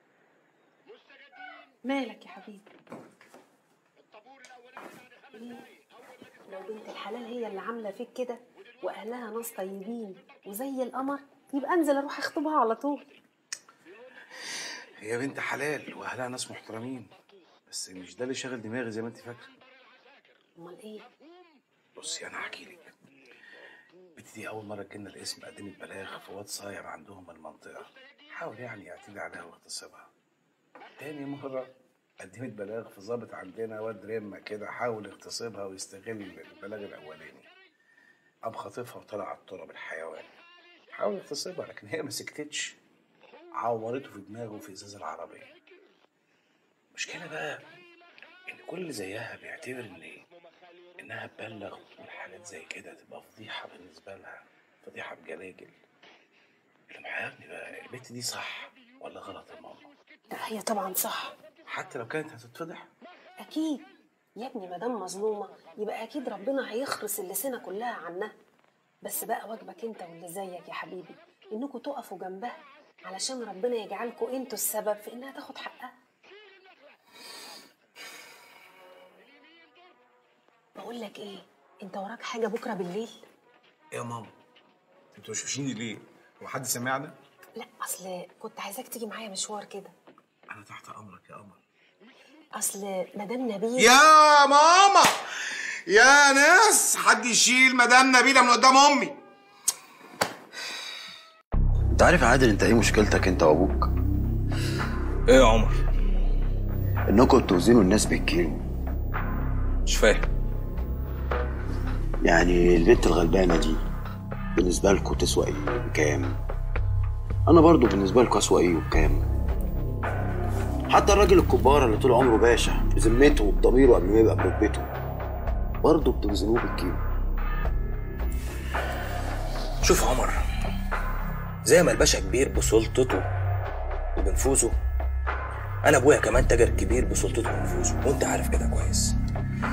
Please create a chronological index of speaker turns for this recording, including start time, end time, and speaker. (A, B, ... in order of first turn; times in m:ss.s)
0:01.8-0:02.6 A
0:05.3-0:05.6 A
0:06.5-0:13.0 A
0:15.0-0:17.1 B
0:17.7-0:19.5 B
0:20.6-0:21.0 A
0:22.0-0:22.9 B
0:24.2-0:30.1 B
0:31.0-0:31.7 B
0:32.2-0:37.5 B
0:38.4-0:40.3 B
0:40.9-0:42.8 B
0:43.6-0:45.5 B
0:46.9-0:47.6 B
0:48.5-0:50.2 B
0:51.0-0:55.7 B
0:56.9-0:59.9 B
1:00.3-1:01.3 A
1:01.7-1:02.9 B
1:03.4-1:03.8 A
1:04.4-1:08.3 A
1:09.0-1:15.9 A
1:20.8-1:23.1 A
1:23.9-1:24.3 B
1:25.1-1:27.1 B
1:27.6-1:29.9 A
1:30.5-1:31.6 B
1:32.5-1:34.0 A
1:34.3-1:34.8 C
1:35.9-1:39.1 C
1:41.9-1:43.9 D
1:45.3-1:45.8 E
1:47.1-1:48.6 D
1:49.8-1:50.2 E
1:52.2-1:53.8 D
1:54.6-1:56.4 D
1:57.5-1:59.2 D
2:00.9-2:04.9 D
2:05.8-2:07.0 D
2:09.8-2:10.4 E
2:11.6-2:13.2 E
2:14.2-2:14.8 E
2:15.8-2:19.1 E